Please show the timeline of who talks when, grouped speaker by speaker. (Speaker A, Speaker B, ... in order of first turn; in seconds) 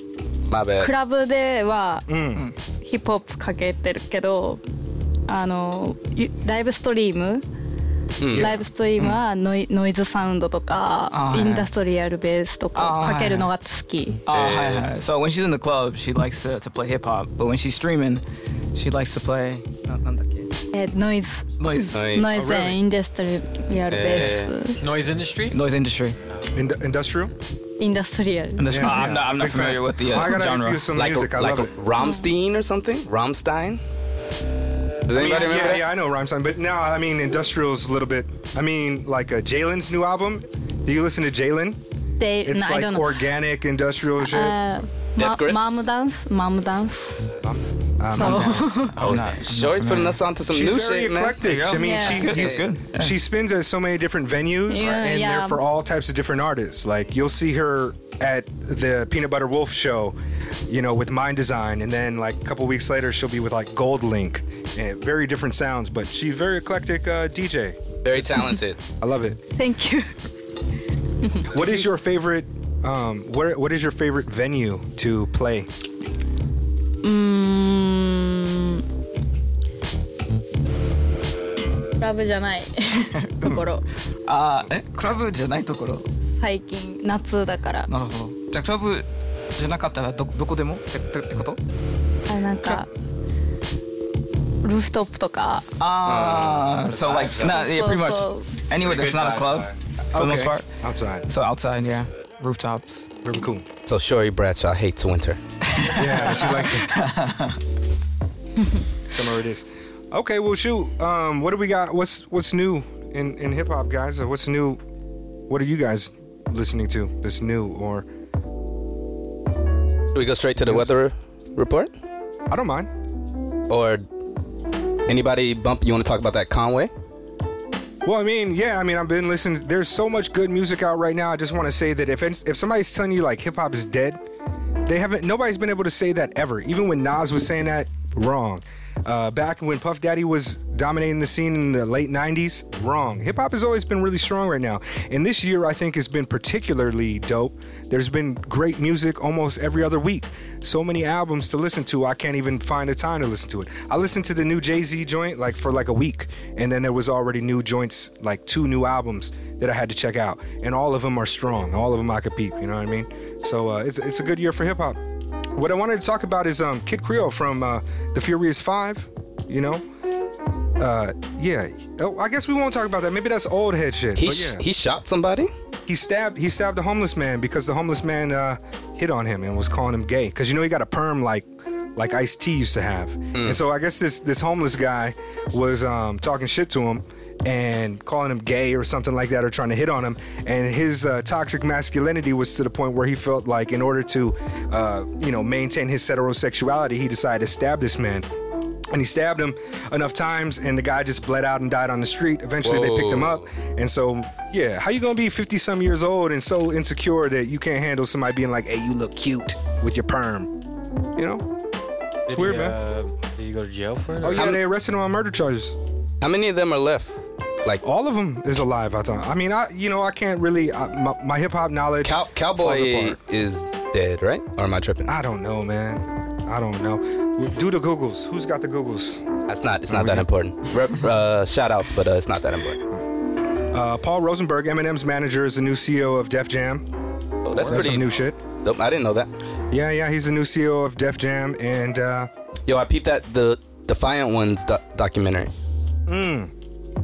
Speaker A: 0.5-0.9, 8.2-8.6, 14.3-14.9, 21.9-22.4, 23.9-24.5, 30.9-33.8, 35.1-35.9, 45.2-45.9, 49.0-51.4, 68.0-68.8, 96.0-96.9, 103.9-105.4, 120.1-121.9, 123.7-124.0, 125.1-126.9, 174.2-175.5, 183.3-183.6, 202.6-203.5, 214.3-214.6, 216.2-217.8, 222.0-225.1, 229.5-232.8, 237.4-238.1, 238.6-239.3, 242.7-245.5
Speaker B: 0.8-2.1, 2.8-4.6, 5.3-7.4, 8.3-14.2, 20.7-21.5, 22.1-24.8, 27.8-28.8, 32.0-32.3, 42.2-43.2, 44.2-47.2, 48.2-48.9, 51.8-52.4, 54.7-55.6, 69.6-70.1, 77.0-78.8, 82.0-83.8, 86.4-87.9, 92.3-92.9, 94.6-95.7, 97.4-98.5
Speaker C: 2.1-2.4, 8.3-8.6, 22.3-22.8, 26.5-27.3, 28.7-31.7, 35.1-41.8, 42.4-44.6, 47.4-48.8, 50.5-60.2, 60.7-69.4, 71.4-75.7, 100.1-101.3, 103.2-103.7, 105.9-106.9, 109.1-114.8, 115.5-118.1, 120.7-120.9, 122.5-122.9, 128.1-134.2, 134.9-165.0, 165.6-169.8, 170.8-174.6, 175.9-198.3, 198.9-210.5, 211.2-211.5, 212.3-212.8, 214.2-215.8, 217.8-223.2, 225.1-229.3, 229.9-230.3, 233.7-236.9, 237.6-238.4, 239.7-242.3, 246.1-246.5
Speaker D: 11.1-11.7, 12.8-13.5, 14.3-18.2, 18.8-20.5, 21.6-22.0, 25.5-26.2, 28.6-30.9, 35.2-35.7, 48.2-50.2, 51.4-53.1, 83.2-83.7, 84.3-86.1, 87.9-91.6, 95.8-100.7, 101.3-103.1, 105.7-107.6
Speaker E: 24.8-25.6, 49.0-49.4, 99.0-99.7, 212.3-214.5